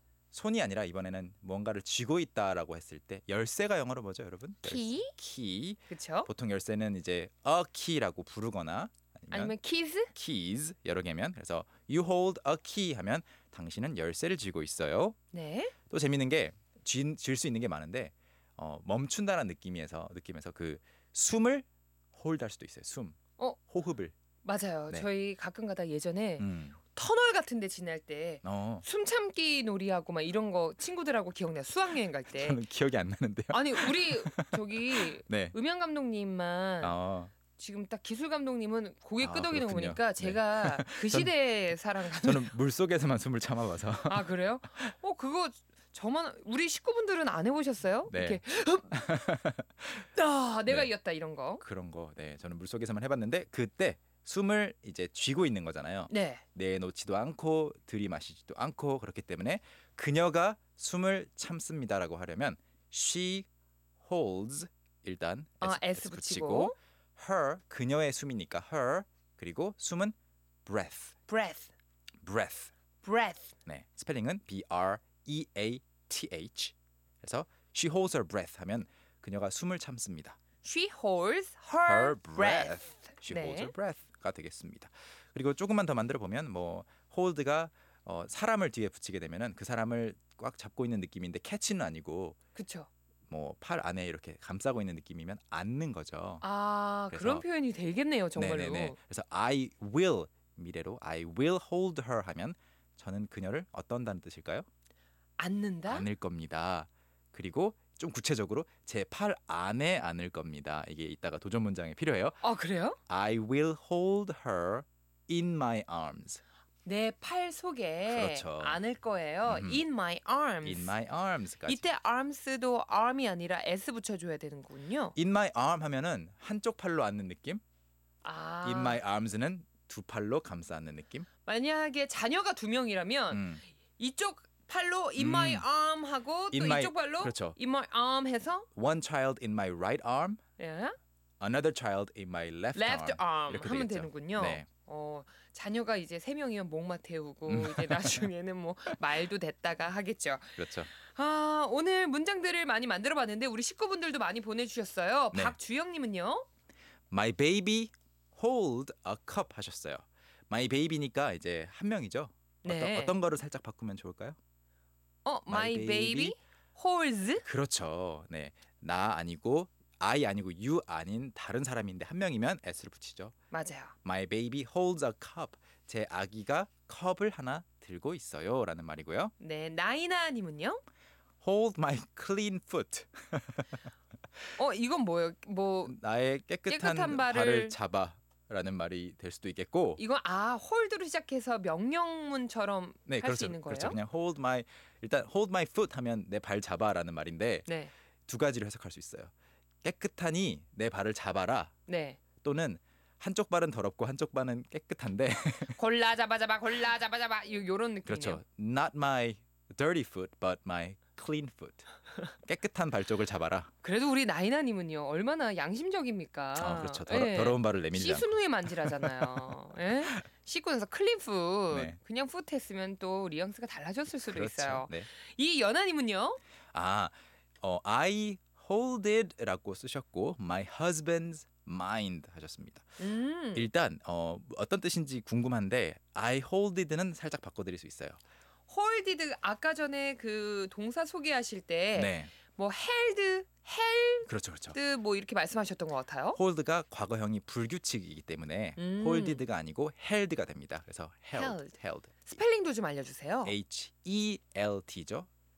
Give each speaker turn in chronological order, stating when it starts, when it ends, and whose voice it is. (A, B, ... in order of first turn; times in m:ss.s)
0:00.3-0:09.6 A
0:04.6-0:05.1 B
0:05.9-0:06.3 B
0:09.3-0:10.1 B
0:10.1-0:15.2 A
0:15.3-0:15.7 B
0:15.9-0:24.1 A
0:24.4-0:32.6 B
0:26.4-0:26.8 A
0:28.4-0:28.8 A
0:32.3-0:35.5 A
0:33.5-0:36.9 B
0:36.8-0:37.3 A
0:37.5-0:42.5 B
0:39.2-0:41.3 A
0:42.2-0:44.2 A
0:44.0-0:48.9 B
0:48.1-0:50.0 A
0:50.1-0:51.6 B
0:51.6-1:03.5 A
0:56.1-0:56.4 B
1:04.0-1:11.1 A
1:05.6-1:06.7 B
1:11.3-1:11.7 B
1:12.2-1:12.7 A
1:13.0-1:13.5 B
1:13.6-1:20.4 A
1:20.6-1:23.7 B
1:21.8-1:32.4 A
1:32.5-1:32.9 B
1:33.3-1:36.4 A
1:36.4-1:39.0 B
1:37.1-1:37.4 A
1:38.4-1:44.7 A
1:45.4-1:46.1 B
1:45.9-1:52.4 A
1:52.4-1:53.0 B
1:53.1-1:56.4 A
1:56.8-2:01.0 B
1:58.1-1:58.8 A
1:59.4-1:59.8 A
2:00.6-2:01.8 A
2:01.6-2:05.1 B
2:05.1-2:07.6 A
2:08.2-2:09.0 B
2:08.6-2:11.3 A
2:11.4-2:18.7 B
2:13.3-2:13.6 A
2:15.2-2:15.6 A
2:16.5-2:17.6 A
2:18.7-2:20.4 A
2:20.6-2:21.0 B
2:21.4-2:24.6 A
2:22.7-2:36.4 B
2:27.5-2:28.3 A
2:30.6-2:30.9 A
2:35.3-2:35.6 A
2:37.1-2:44.4 A
2:42.6-2:43.1 B
2:45.2-2:47.4 B
2:45.5-2:46.3 A
2:47.4-2:53.3 A
2:53.5-2:53.9 B
2:54.0-2:59.3 A
2:59.4-3:00.8 B
3:01.4-3:03.9 A
3:04.6-3:06.0 B
3:05.8-3:10.0 A
3:06.7-3:07.7 B
3:10.0-3:14.0 B
3:13.1-3:17.7 A
3:17.6-3:17.9 B
3:18.3-3:19.3 A
3:19.8-3:21.7 A
3:21.9-3:22.2 B
3:22.4-3:25.8 A
3:25.8-3:28.4 B
3:28.0-3:31.9 A
3:32.4-3:33.7 A
3:33.8-3:46.4 B
3:36.6-3:38.3 A
3:38.8-3:39.2 A
3:41.7-3:42.0 A
3:44.2-3:45.1 A
3:46.7-3:52.9 A
3:53.0-3:53.7 B
3:53.5-3:58.2 A
3:58.7-4:06.4 B
4:01.9-4:02.3 A
4:04.3-4:04.8 A
4:06.3-4:12.3 A
4:08.8-4:09.4 B
4:11.3-4:13.5 B
4:13.4-4:15.3 A